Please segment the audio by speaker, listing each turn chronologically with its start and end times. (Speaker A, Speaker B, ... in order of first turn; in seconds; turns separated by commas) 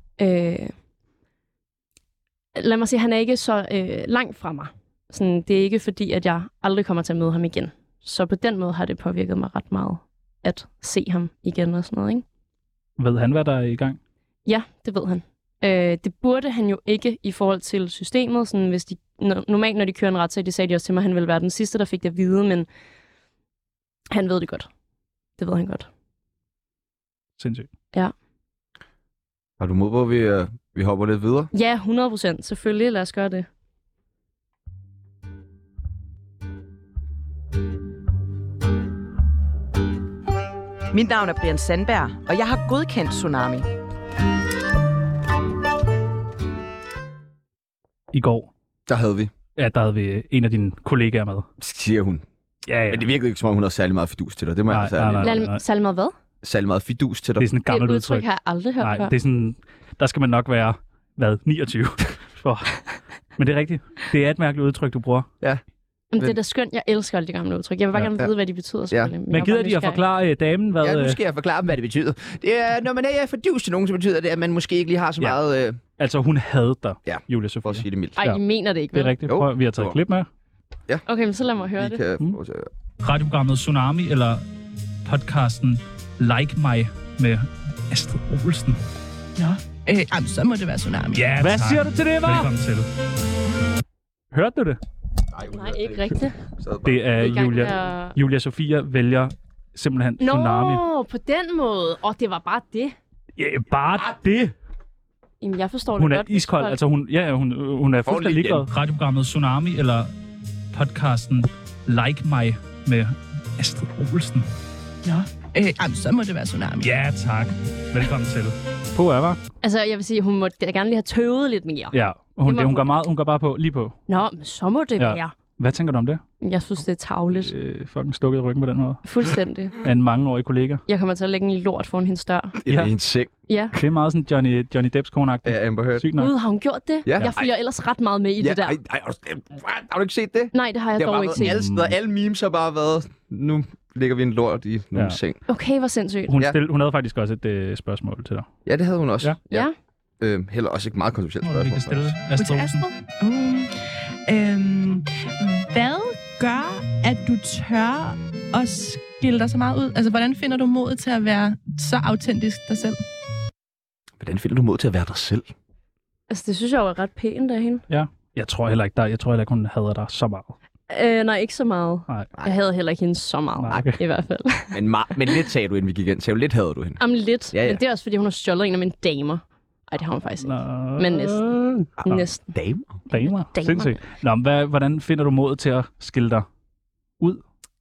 Speaker A: 0.2-0.7, Speaker A: 2.6-12.2, Speaker B: 13.0-14.0, Speaker A: 14.5-22.7, Speaker A: 24.1-24.7, Speaker A: 25.4-25.9, Speaker B: 27.4-27.7, Speaker C: 29.6-31.5, Speaker A: 31.5-33.5, Speaker D: 40.9-43.7, Speaker B: 48.1-48.5, Speaker C: 48.9-49.3, Speaker B: 49.6-51.5, Speaker C: 51.6-52.2, Speaker B: 52.7-53.1, Speaker C: 52.9-55.4, Speaker B: 54.7-55.6, Speaker A: 55.2-56.1, Speaker C: 56.4-57.5, Speaker B: 57.4-58.3, Speaker A: 57.7-59.1, Speaker B: 58.8-62.9, Speaker B: 63.4-65.3, Speaker A: 66.1-70.0, Speaker B: 69.3-71.2, Speaker C: 70.8-75.8, Speaker B: 76.0-78.4, Speaker C: 77.1-78.2, Speaker A: 78.2-79.2, Speaker B: 78.9-80.3, Speaker C: 79.3-80.0, Speaker A: 81.1-82.0, Speaker C: 81.8-82.7, Speaker B: 83.0-84.4, Speaker B: 85.0-88.8, Speaker E: 89.4-91.7, Speaker B: 91.1-92.9, Speaker B: 94.3-94.8, Speaker C: 95.3-97.1, Speaker A: 95.4-96.4, Speaker B: 96.8-100.8, Speaker A: 97.1-98.2, Speaker A: 100.2-103.0, Speaker B: 103.4-104.5, Speaker A: 105.4-106.8, Speaker B: 106.0-110.1, Speaker C: 108.0-108.7, Speaker B: 110.7-114.5, Speaker E: 115.0-116.9, Speaker B: 116.8-119.4, Speaker A: 119.6-122.9, Speaker B: 121.9-124.0, Speaker A: 124.1-125.3, Speaker B: 125.0-126.2, Speaker A: 126.4-127.5, Speaker B: 127.3-129.1, Speaker A: 129.1-129.8, Speaker B: 129.8-130.8, Speaker A: 130.9-132.6, Speaker C: 132.6-133.3, Speaker A: 133.5-133.8, Speaker B: 133.7-136.3, Speaker C: 135.4-136.1, Speaker A: 136.2-138.8, Speaker C: 137.1-137.5, Speaker C: 138.4-145.4, Speaker A: 140.5-141.6, Speaker B: 141.4-141.9, Speaker B: 144.9-145.2, Speaker A: 145.5-146.3, Speaker B: 146.3-148.5, Speaker C: 148.7-149.7, Speaker C: 150.2-152.2, Speaker B: 151.4-152.9, Speaker E: 152.4-153.8, Speaker E: 154.3-163.0, Speaker C: 164.2-165.5, Speaker A: 166.3-167.8, Speaker B: 167.9-170.6, Speaker A: 170.9-175.4, Speaker B: 173.6-174.0, Speaker C: 174.7-177.0, Speaker A: 177.0-181.4, Speaker C: 177.5-177.8, Speaker B: 180.4-182.2, Speaker C: 182.0-183.0, Speaker A: 182.1-182.5, Speaker B: 183.1-186.5, Speaker A: 183.5-184.0